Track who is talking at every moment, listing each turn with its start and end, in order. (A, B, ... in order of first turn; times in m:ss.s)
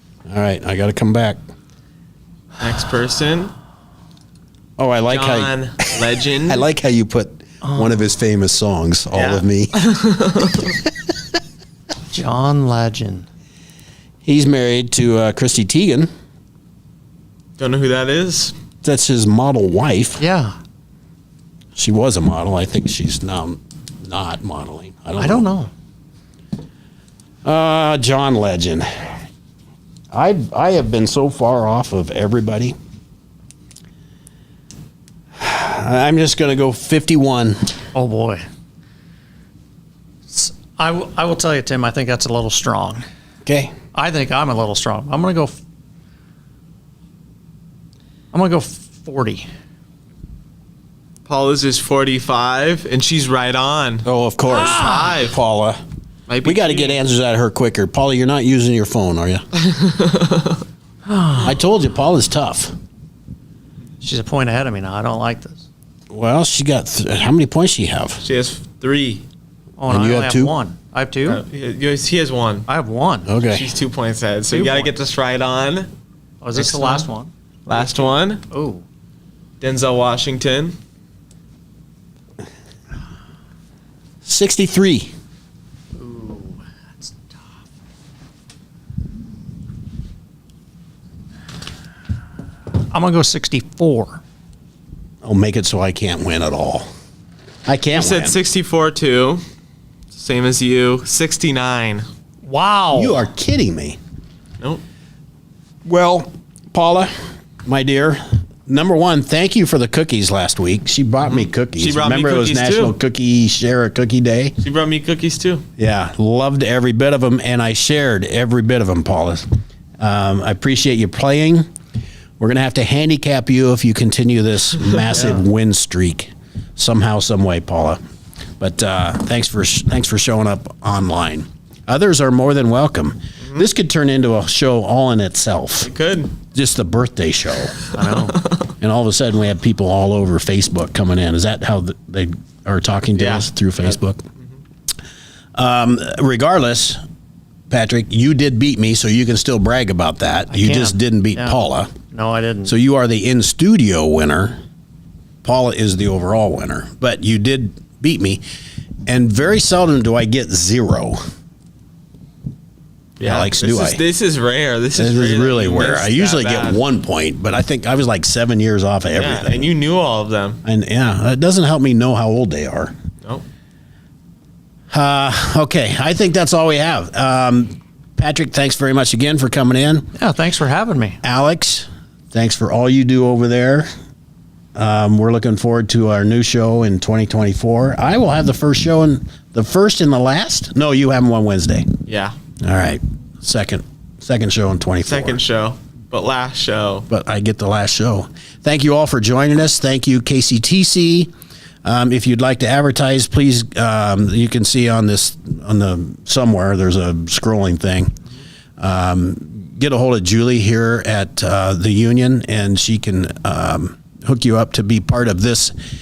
0:00.3-0:01.4 A
0:02.6-0:03.5 B
0:04.8-0:09.8 A
0:05.1-0:06.7 B
0:07.6-0:08.0 C
0:09.1-0:10.7 B
0:12.1-0:13.3 C
0:14.2-0:16.1 A
0:17.6-0:18.6 B
0:18.8-0:20.2 A
0:20.2-0:20.6 C
0:21.8-0:25.5 A
0:25.2-0:25.7 C
0:27.4-0:28.9 A
0:30.1-0:32.8 A
0:35.4-0:37.8 A
0:37.9-0:38.4 C
0:40.3-0:43.0 C
0:43.5-0:43.7 A
0:43.9-0:45.6 C
0:48.3-0:49.5 C
0:51.3-0:55.4 B
0:54.0-0:55.8 A
0:54.6-0:55.1 C
0:56.3-0:57.0 B
0:56.4-0:59.4 A
0:59.6-1:00.6 B
1:01.1-1:01.5 C
1:01.4-1:02.7 A
1:04.0-1:05.6 C
1:06.1-1:08.2 A
1:08.2-1:09.2 B
1:09.8-1:11.4 C
1:09.9-1:10.5 A
1:11.3-1:12.7 B
1:12.7-1:13.3 C
1:13.3-1:13.7 A
1:13.5-1:15.9 B
1:14.5-1:14.9 C
1:16.4-1:17.3 C
1:16.6-1:17.1 B
1:17.7-1:18.4 B
1:18.5-1:18.8 C
1:19.6-1:20.8 B
1:24.2-1:25.1 A
1:26.0-1:27.2 C
1:32.9-1:34.2 C
1:35.2-1:36.9 A
1:37.7-1:38.4 A
1:38.0-1:39.4 B
1:40.1-1:42.1 B
1:42.4-1:43.2 C
1:42.9-1:44.0 A
1:45.8-1:47.1 A
1:47.6-1:54.5 A
1:51.2-1:53.0 B
1:54.6-1:55.6 B
1:55.8-1:59.5 A
2:00.0-2:01.7 A
2:02.4-2:08.0 A
2:08.6-2:15.9 A
2:15.8-2:16.3 B
2:16.5-2:17.8 A
2:17.9-2:18.4 C
2:18.3-2:18.7 B
2:18.8-2:24.2 A
2:23.2-2:23.9 B
2:25.6-2:27.0 A
2:27.7-2:31.9 A
2:30.5-2:32.7 C
2:32.6-2:34.6 A
2:35.4-2:38.4 A
2:39.1-2:41.2 A
2:43.2-2:44.0 A
2:43.2-2:46.8 B
2:45.0-2:49.7 A
2:49.1-2:50.6 B
2:50.6-2:52.9 A
2:54.9-3:00.1 A
3:00.2-3:01.2 C
3:01.2-3:03.9 A
3:04.8-3:11.9 A
3:12.1-3:12.3 B
3:12.6-3:15.4 A
3:15.0-3:17.1 B
3:17.1-3:21.3 A
3:21.8-3:28.1 A
3:28.8-3:35.7 A